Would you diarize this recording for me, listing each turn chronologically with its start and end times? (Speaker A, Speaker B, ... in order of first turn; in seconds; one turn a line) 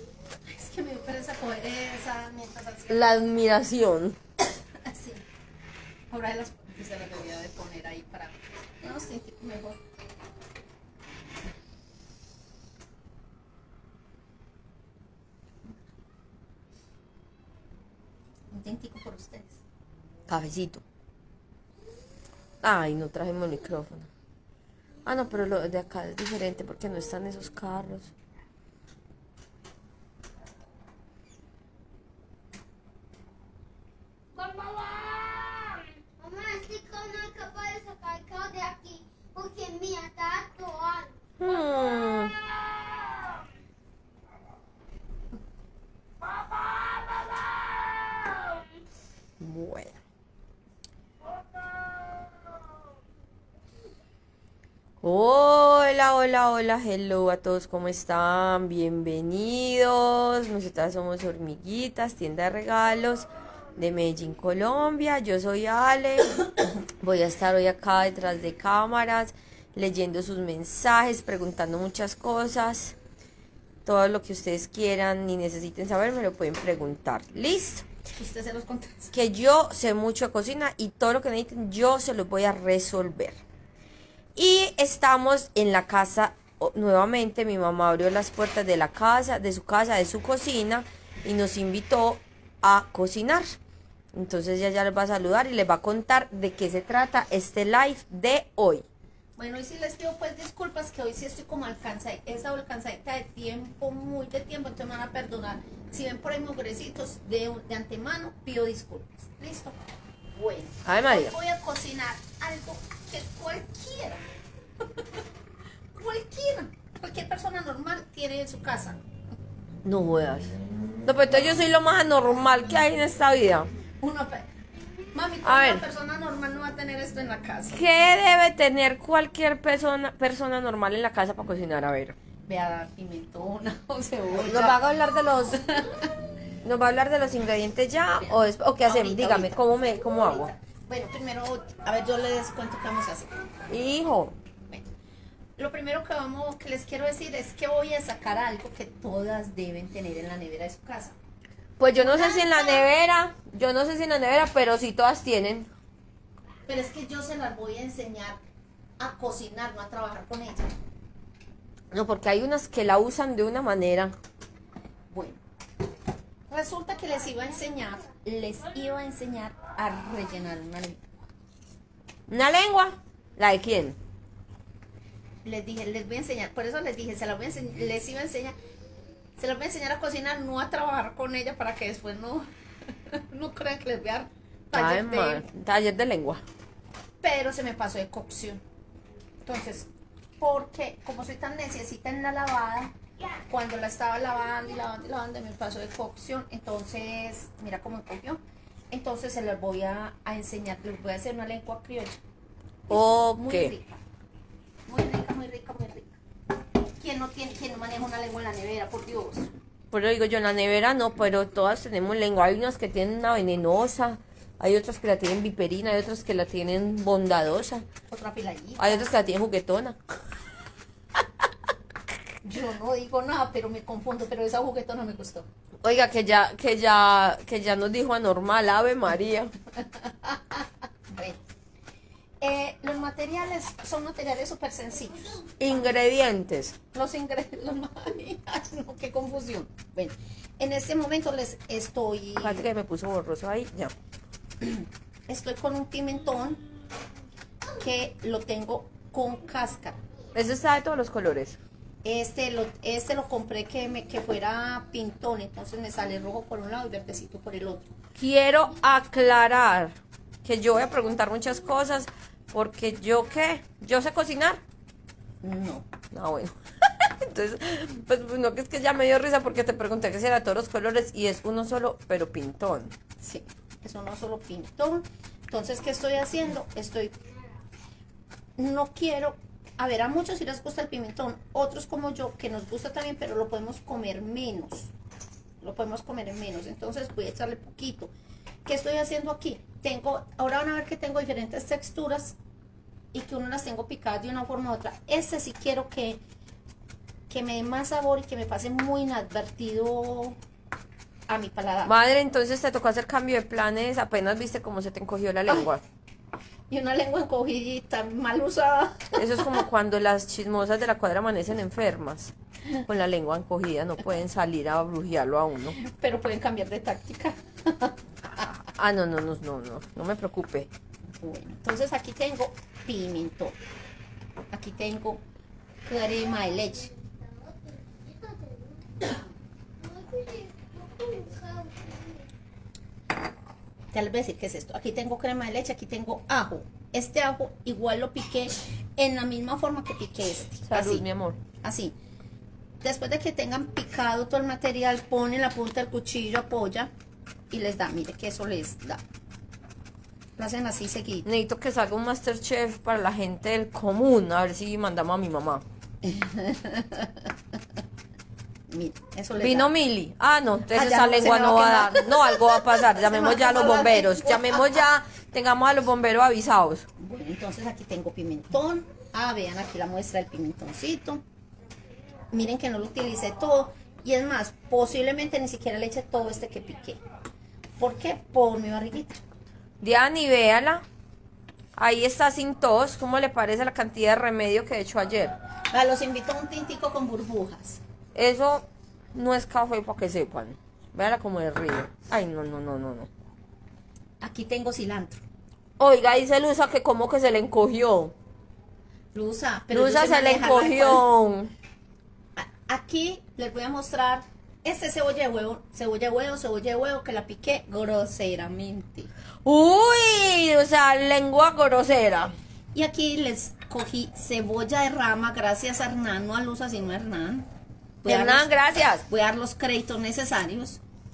Speaker A: 0.5-3.1
Speaker B: 2.9-4.2
Speaker A: 4.7-5.2
Speaker A: 6.1-9.8
Speaker A: 18.5-19.6
Speaker B: 20.3-20.8
Speaker B: 22.6-24.1
Speaker B: 25.1-28.1
Speaker C: 34.3-42.3
Speaker B: 41.4-42.4
Speaker B: 49.4-49.9
Speaker B: 55.0-73.0
Speaker B: 73.8-77.9
Speaker A: 78.1-79.1
Speaker B: 79.1-83.4
Speaker B: 84.3-93.6
Speaker B: 94.1-98.8
Speaker A: 99.4-109.8
Speaker A: 110.3-114.2
Speaker B: 110.8-111.3
Speaker A: 115.9-119.0
Speaker B: 119.8-123.7
Speaker A: 124.0-124.5
Speaker A: 125.1-127.9
Speaker B: 125.4-125.8
Speaker B: 127.7-132.2
Speaker A: 132.5-134.8
Speaker B: 134.3-135.6
Speaker A: 135.6-136.1
Speaker B: 136.6-140.5
Speaker A: 138.8-143.3
Speaker B: 143.7-144.3
Speaker A: 145.6-151.2
Speaker B: 151.8-155.7
Speaker A: 152.0-152.8
Speaker A: 156.7-158.4
Speaker A: 159.0-160.7
Speaker B: 161.9-164.1
Speaker A: 165.1-165.4
Speaker A: 166.5-171.1
Speaker B: 172.3-174.0
Speaker A: 175.4-178.5
Speaker A: 179.4-185.5
Speaker B: 184.7-186.4
Speaker A: 187.2-188.6
Speaker A: 189.4-192.9
Speaker A: 193.5-202.2
Speaker A: 202.9-204.0
Speaker B: 202.9-203.7
Speaker A: 204.9-206.2
Speaker A: 206.8-209.5
Speaker B: 209.9-217.8
Speaker A: 218.1-219.1
Speaker B: 218.8-220.0
Speaker A: 222.4-225.5
Speaker B: 225.8-229.5
Speaker A: 229.8-231.4
Speaker A: 232.4-235.6
Speaker B: 235.6-236.8
Speaker A: 236.9-242.7
Speaker B: 242.4-243.9
Speaker A: 244.6-246.6
Speaker A: 247.8-250.0
Speaker B: 250.3-251.6
Speaker A: 252.0-257.9
Speaker B: 258.2-264.6
Speaker A: 265.4-265.9
Speaker B: 266.1-272.9
Speaker A: 273.2-277.1
Speaker A: 278.6-284.9
Speaker A: 285.6-288.1
Speaker A: 288.6-292.4
Speaker A: 293.1-296.2
Speaker A: 297.3-300.4
Speaker A: 301.3-301.9
Speaker B: 301.8-305.8
Speaker A: 306.7-309.6
Speaker B: 309.2-312.3
Speaker B: 312.9-315.8
Speaker A: 315.7-318.5
Speaker B: 318.4-320.7
Speaker A: 321.1-323.6
Speaker A: 324.5-325.2
Speaker A: 325.8-326.9
Speaker C: 326.7-329.2
Speaker C: 329.8-332.3
Speaker A: 333.9-341.0
Speaker B: 340.7-341.4
Speaker A: 341.6-341.9
Speaker A: 342.8-346.9
Speaker A: 347.5-349.0
Speaker A: 350.4-351.2
Speaker B: 351.2-355.6
Speaker A: 356.0-357.3
Speaker A: 358.7-359.7
Speaker B: 359.4-366.9
Speaker A: 360.7-364.8
Speaker A: 367.0-371.2
Speaker A: 372.3-377.0
Speaker A: 377.8-379.2
Speaker B: 379.8-380.8
Speaker B: 381.8-385.3
Speaker A: 385.7-387.8
Speaker B: 388.1-393.1
Speaker A: 394.2-395.2
Speaker B: 395.8-398.1
Speaker A: 399.1-401.1
Speaker B: 399.7-401.5
Speaker A: 402.4-409.1
Speaker B: 409.4-412.3
Speaker A: 412.7-417.5
Speaker A: 418.0-420.8
Speaker B: 418.0-419.0